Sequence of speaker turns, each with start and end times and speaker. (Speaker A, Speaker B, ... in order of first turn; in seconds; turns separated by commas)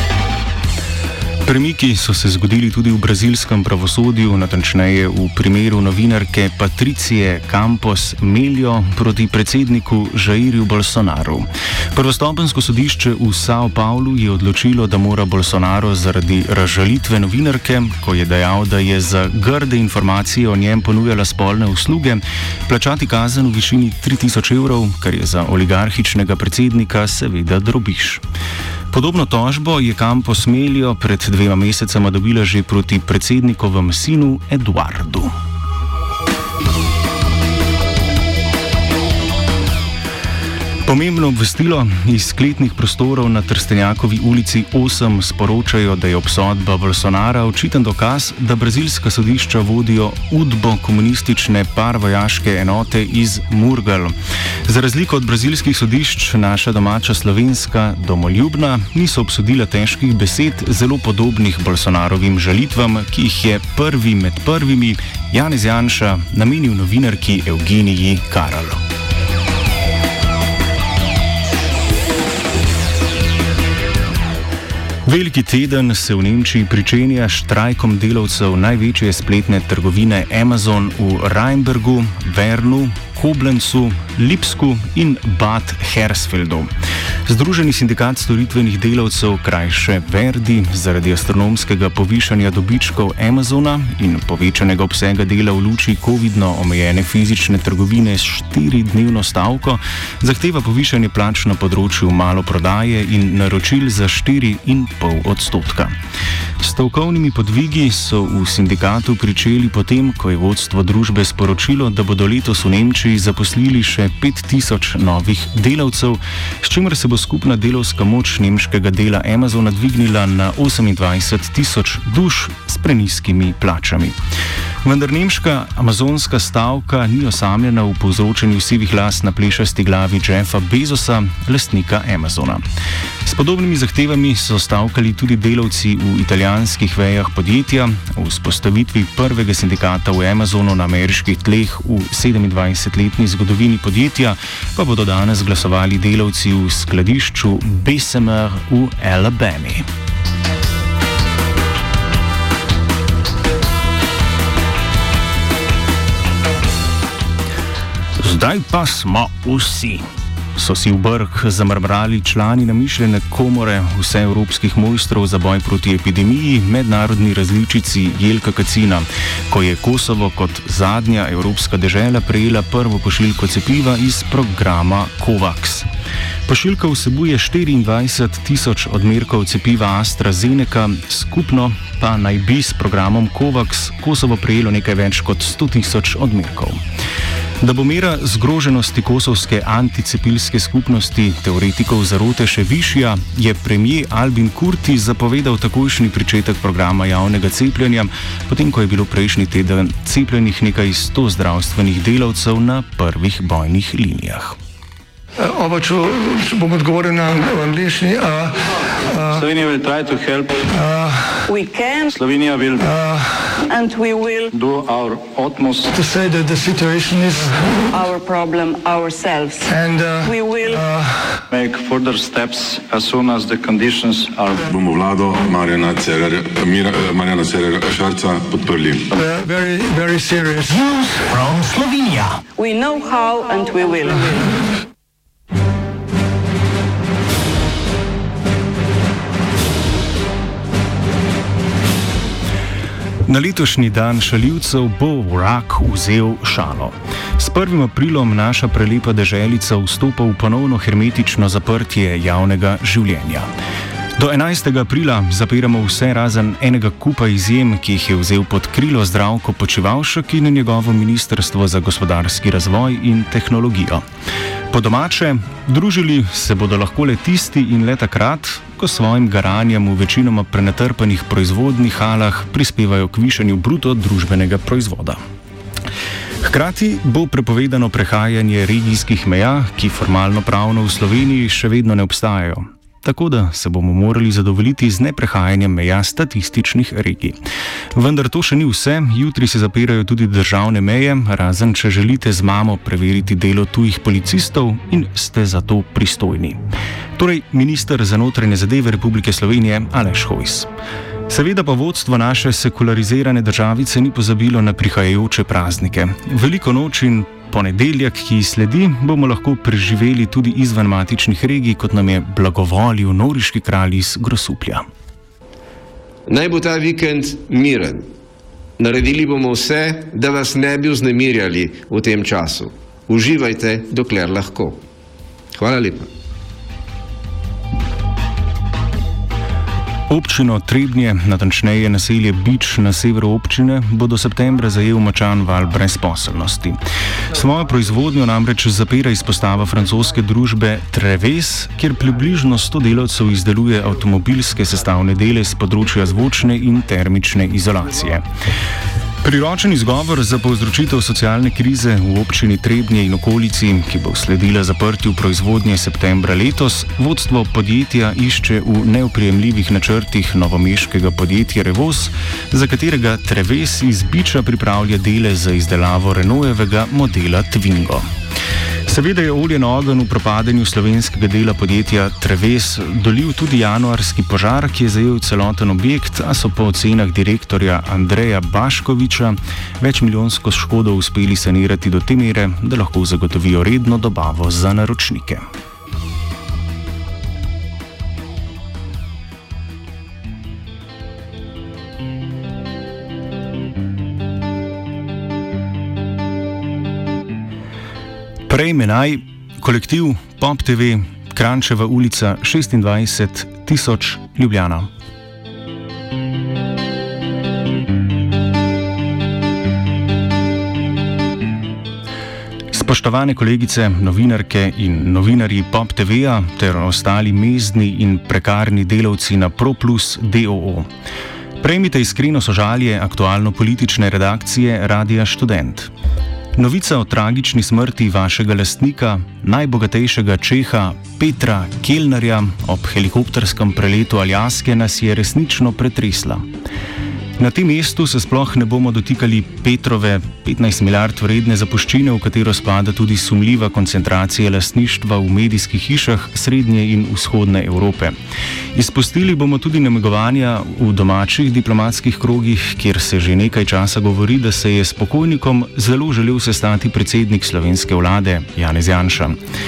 Speaker A: 1.4-28.2, Speaker A: 28.9-35.3, Speaker A: 40.9-54.1, Speaker A: 54.7-68.8, Speaker A: 75.1-86.7, Speaker A: 87.3-106.0, Speaker A: 106.6-124.2, Speaker A: 124.8-132.6, Speaker A: 133.2-149.8, Speaker A: 158.2-175.9, Speaker A: 176.5-186.8, Speaker A: 187.6-204.6, Speaker B: 205.4-209.4, Speaker C: 209.3-210.7, Speaker B: 210.7-211.5, Speaker D: 211.5-212.1, Speaker C: 212.1-212.9, Speaker B: 212.8-213.7, Speaker D: 213.7-214.5, Speaker C: 214.5-215.9, Speaker B: 215.9-218.1, Speaker D: 218.0-219.7, Speaker B: 219.7-221.4, Speaker D: 220.3-220.7, Speaker C: 221.5-224.7, Speaker E: 224.7-229.2, Speaker B: 229.1-231.4, Speaker D: 232.6-234.6, Speaker A: 243.3-253.5, Speaker A: 254.2-264.0, Speaker A: 264.7-275.2, Speaker A: 276.4-287.4, Speaker A: 287.9-296.6, Speaker A: 297.2-300.7, Speaker A: 301.3-314.8, Speaker F: 316.3-318.1, Speaker F: 318.8-324.8, Speaker F: 325.6-326.1, Speaker A: 330.1-336.8, Speaker A: 337.3-348.2, Speaker A: 349.2-368.1, Speaker A: 368.9-385.4, Speaker A: 398.5-404.9, Speaker A: 412.7-420.9, Speaker A: 421.6-425.9, Speaker A: 426.6-436.5, Speaker A: 437.4-448.1, Speaker A: 448.7-459.4